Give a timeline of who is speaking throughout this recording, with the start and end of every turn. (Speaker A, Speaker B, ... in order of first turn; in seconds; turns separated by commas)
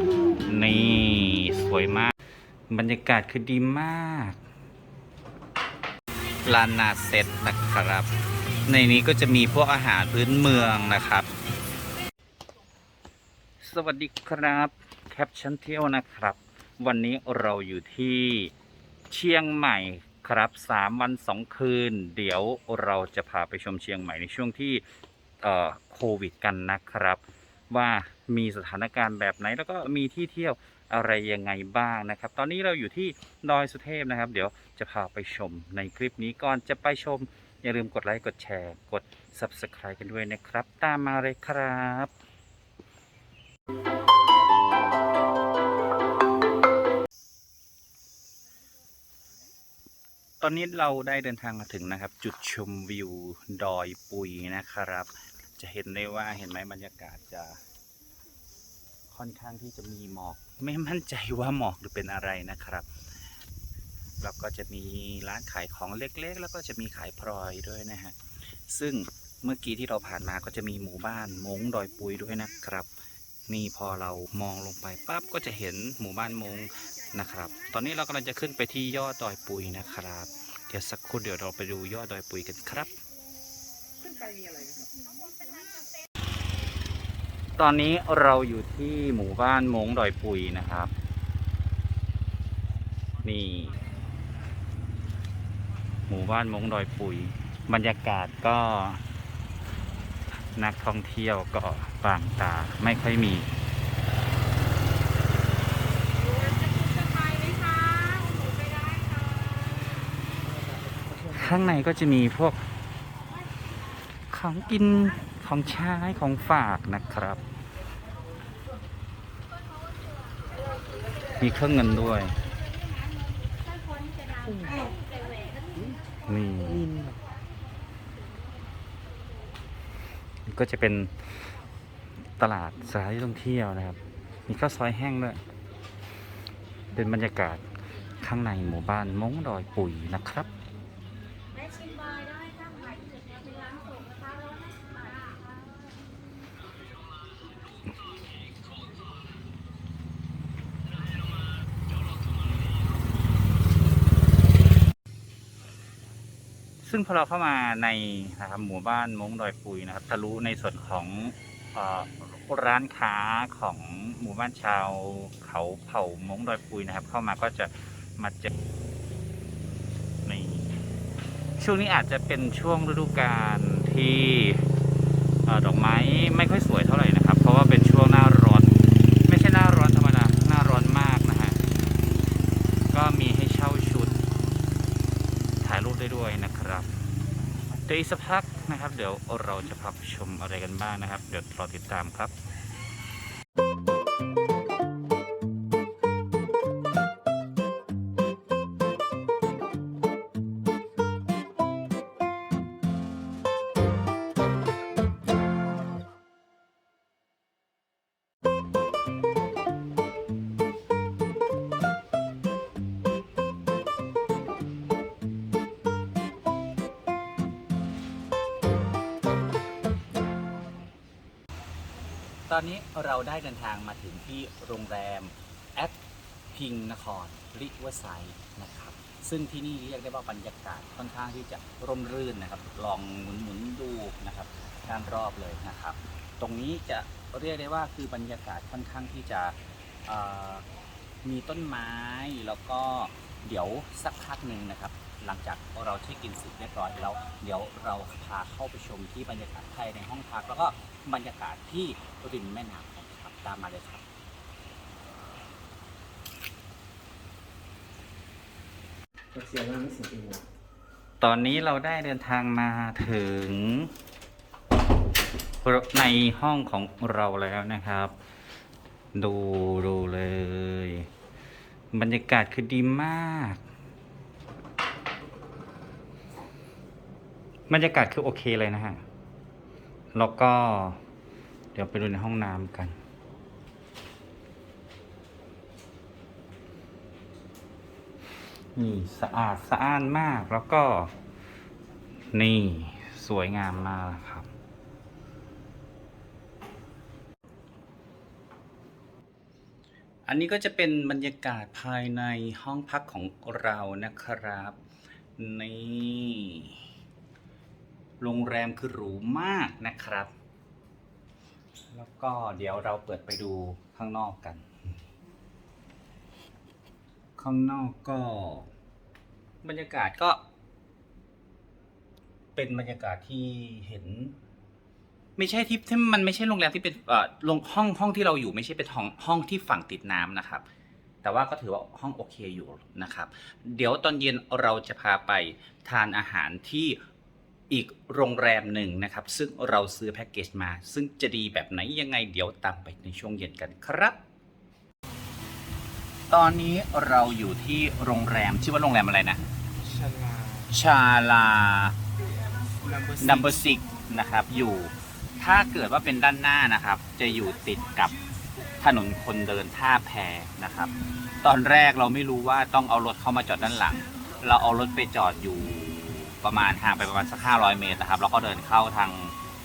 Speaker A: 0.5-2.1, Speaker A: 2.7-4.4, Speaker A: 6.4-8.1, Speaker A: 8.7-11.3, Speaker A: 13.6-18.5, Speaker A: 19.1-24.8, Speaker A: 25.4-42.1, Speaker A: 50.4-57.6, Speaker A: 59.1-62.9, Speaker A: 64.2-68.2, Speaker A: 68.7-72.9, Speaker A: 73.5-82.9, Speaker B: 84.2-84.8, Speaker A: 87.6-90.9, Speaker A: 93.2-93.8, Speaker A: 96.1-99.0, Speaker A: 100.5-103.5, Speaker C: 106.4-110.0, Speaker A: 111.2-112.6, Speaker A: 114.3-117.4, Speaker A: 121.4-122.4, Speaker C: 124.5-125.6, Speaker A: 126.2-126.9, Speaker A: 130.5-131.1, Speaker A: 132.4-135.4, Speaker A: 136.9-137.6, Speaker A: 138.2-140.5, Speaker C: 141.6-145.3, Speaker A: 156.8-168.5, Speaker A: 170.2-170.7, Speaker A: 171.6-174.6, Speaker A: 175.4-181.6, Speaker A: 182.9-184.2, Speaker A: 185.6-186.9, Speaker A: 187.8-192.3, Speaker A: 222.5-226.0, Speaker A: 226.5-240.6, Speaker A: 241.2-254.0, Speaker B: 259.3-260.4, Speaker A: 261.2-263.9, Speaker A: 265.6-268.1, Speaker A: 269.1-271.1, Speaker A: 271.9-273.6, Speaker A: 277.7-279.0, Speaker A: 280.1-281.0, Speaker A: 281.7-282.9, Speaker A: 288.7-291.1, Speaker A: 292.3-294.5, Speaker A: 300.3-304.8, Speaker A: 305.4-306.9, Speaker A: 308.2-310.3, Speaker A: 311.9-314.6, Speaker A: 317.4-318.7, Speaker A: 319.6-320.4, Speaker A: 322.5-324.4, Speaker A: 325.4-330.6, Speaker A: 331.2-337.0, Speaker A: 337.7-344.2, Speaker A: 346.3-349.4, Speaker B: 350.0-350.6, Speaker A: 350.7-352.0, Speaker B: 352.8-353.2, Speaker A: 353.2-358.1, Speaker A: 358.8-369.3